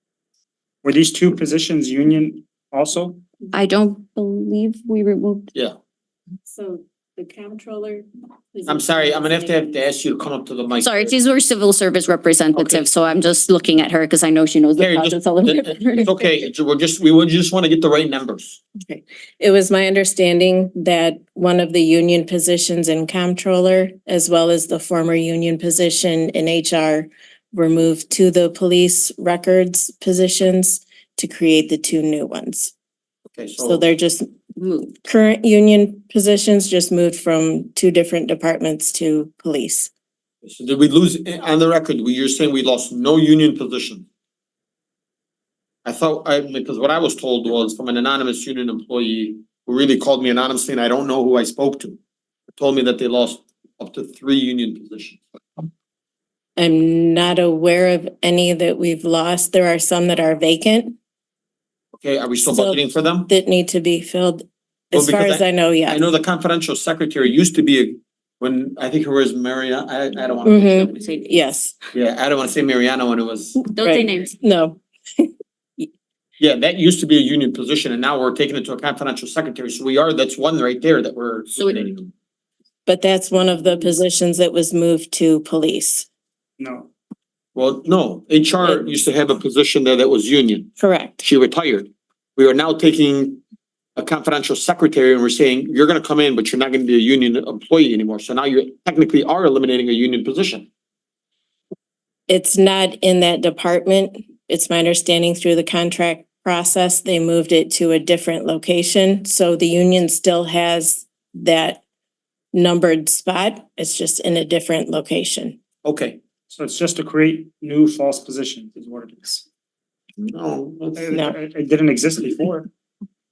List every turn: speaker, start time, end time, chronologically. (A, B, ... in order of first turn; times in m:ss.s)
0:00.8-0:03.2 A
0:03.5-0:05.5 B
0:06.4-0:09.8 C
0:08.7-0:11.1 D
0:10.8-0:16.1 B
0:12.5-0:12.8 D
0:14.8-0:18.6 D
0:16.0-0:16.3 C
0:18.8-0:32.7 C
0:33.3-0:33.8 D
0:33.6-0:34.3 C
0:34.6-0:35.0 B
0:35.0-0:39.9 C
0:40.4-0:44.0 D
0:45.8-0:52.0 D
0:52.5-0:55.2 D
0:56.6-1:01.0 C
1:02.0-1:03.3 D
1:02.4-1:06.1 C
1:04.9-1:11.0 D
1:10.4-1:11.8 C
1:10.6-1:11.3 B
1:11.9-1:13.6 D
1:13.6-1:14.4 B
1:13.8-1:15.9 C
1:16.4-1:22.0 D
1:21.5-1:21.9 B
1:22.8-1:26.1 C
1:23.7-1:23.9 B
1:26.6-1:26.9 A
1:27.5-1:33.4 D
1:30.8-1:31.2 C
1:34.0-1:40.7 D
1:42.3-1:51.8 C
1:52.5-1:55.6 C
1:55.8-1:56.2 D
1:56.5-1:59.4 A
2:00.2-2:01.3 D
2:01.0-2:02.7 A